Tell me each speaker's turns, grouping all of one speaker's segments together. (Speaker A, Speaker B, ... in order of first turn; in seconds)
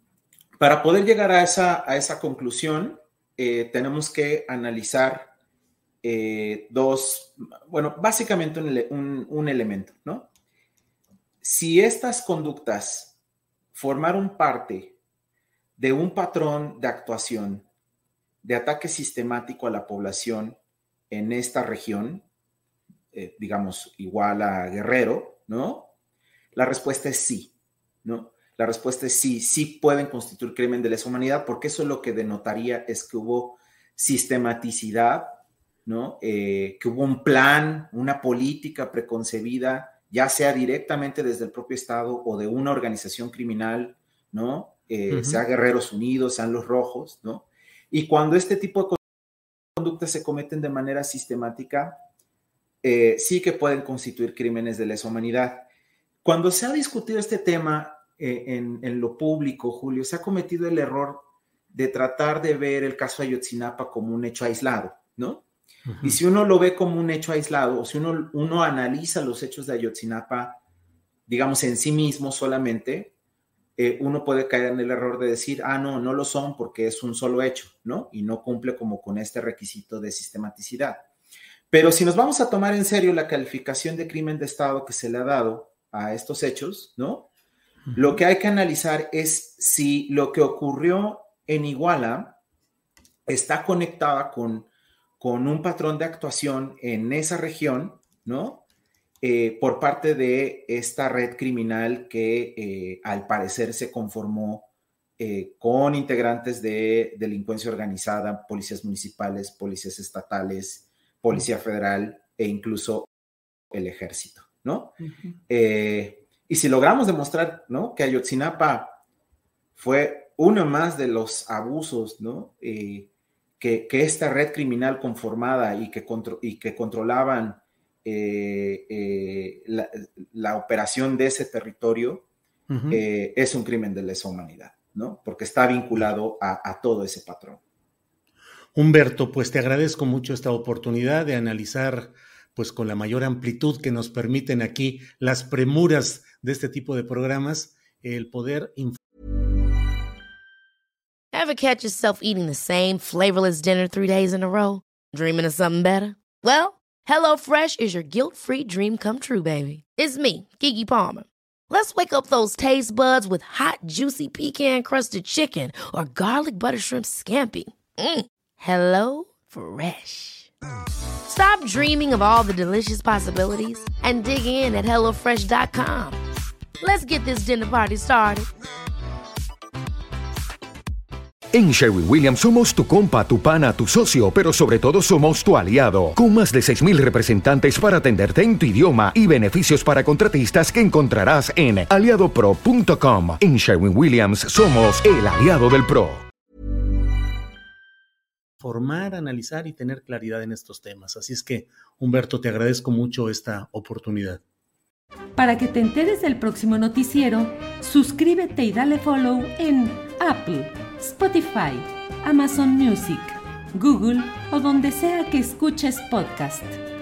Speaker A: 0.6-5.3, 6.0-10.3, 11.4-13.2, 13.7-15.0, 15.8-17.7, 18.4-20.6, 21.1-22.3, 23.1-25.9, 26.5-27.5, 28.0-49.0, 49.8-52.0, 52.8-55.7, 56.2-65.4, 66.0-70.6, 71.3-73.2, 73.8-81.1, 81.7-87.3, 88.0-92.4, 93.3-98.7, 99.2-113.1, 113.7-115.0, 115.5-119.0, 119.8-132.3, 132.9-137.6
Speaker B: 45.1-45.4, 65.9-66.2, 87.9-88.2, 132.7-133.0, 138.8-149.0, 198.6-204.4
Speaker C: 151.3-170.5, 171.3-176.2, 176.8-178.5
Speaker D: 181.5-196.3
Speaker E: 205.4-216.8